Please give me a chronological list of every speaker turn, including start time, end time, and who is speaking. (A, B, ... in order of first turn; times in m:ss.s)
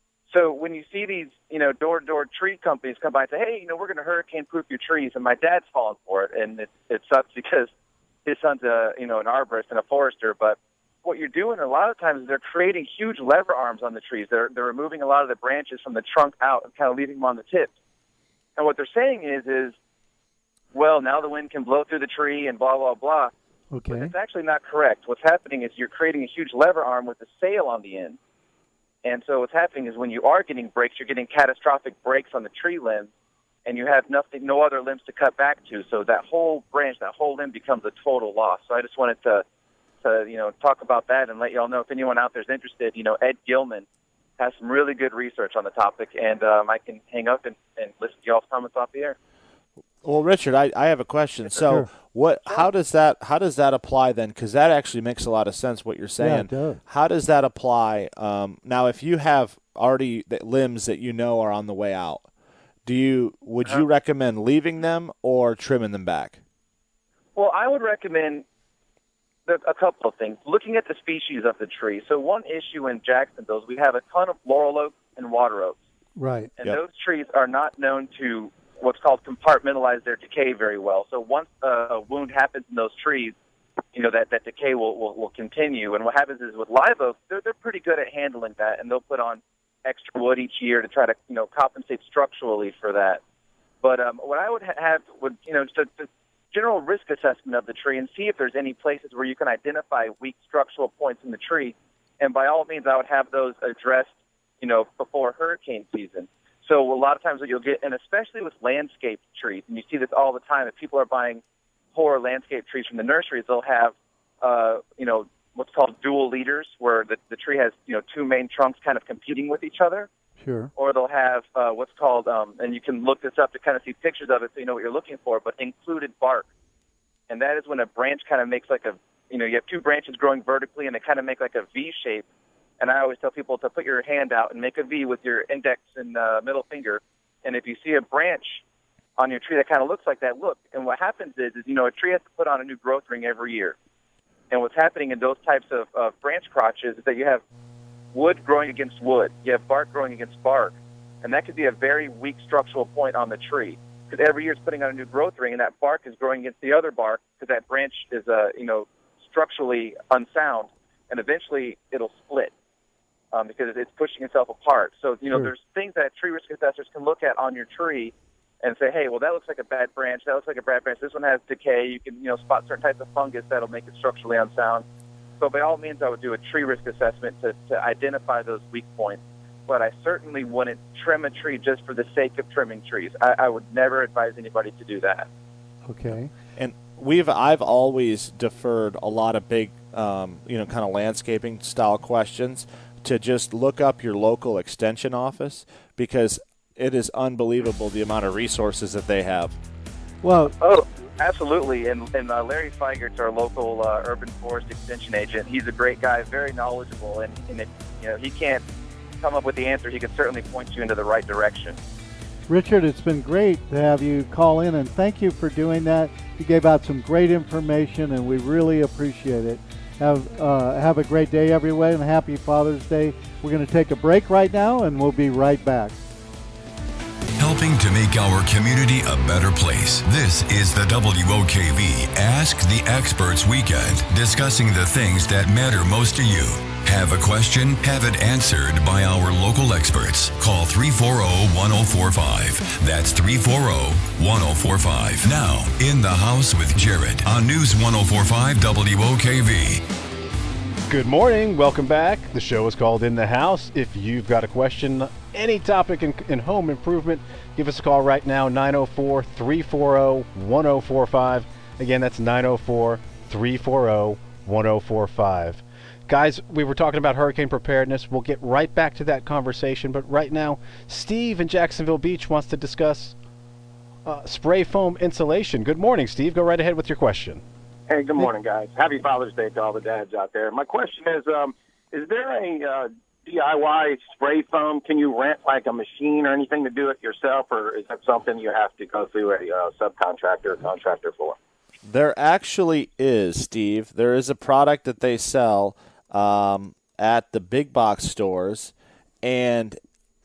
0:00.3-0:07.7 A
0:08.2-0:17.7 A
0:18.6-0:19.7 A
0:20.7-0:23.3 A
0:23.7-0:24.1 B
0:23.9-0:28.2 A
0:29.0-0:33.1 A
0:33.6-0:39.4 A
0:40.0-0:43.8 A
0:44.4-0:49.2 A
0:50.0-1:02.3 C
0:56.2-0:56.8 B
1:02.8-1:06.4 C
1:07.4-1:08.4 A
1:09.5-1:15.8 A
1:16.2-1:16.5 B
1:16.6-1:23.3 A
1:23.9-1:33.2 A
1:33.8-1:51.4 A
1:51.9-2:00.1 A
2:00.4-2:00.7 B
2:00.8-2:06.4 A
2:07.3-2:12.2 A
2:12.8-2:18.6 A
2:19.2-2:23.8 A
2:24.5-2:27.4 A
2:28.1-2:42.5 A
2:43.3-2:54.8 A
2:55.4-3:05.3 A
3:05.8-3:06.3 B
3:06.6-3:19.6 C
3:20.2-3:20.6 B
3:20.6-3:28.6 A
3:29.2-3:31.8 A
3:32.5-3:46.0 B
3:47.4-4:09.8 D
4:10.9-4:33.2 E
4:34.0-4:37.4 E
4:37.9-4:51.4 F
4:51.8-4:59.8 C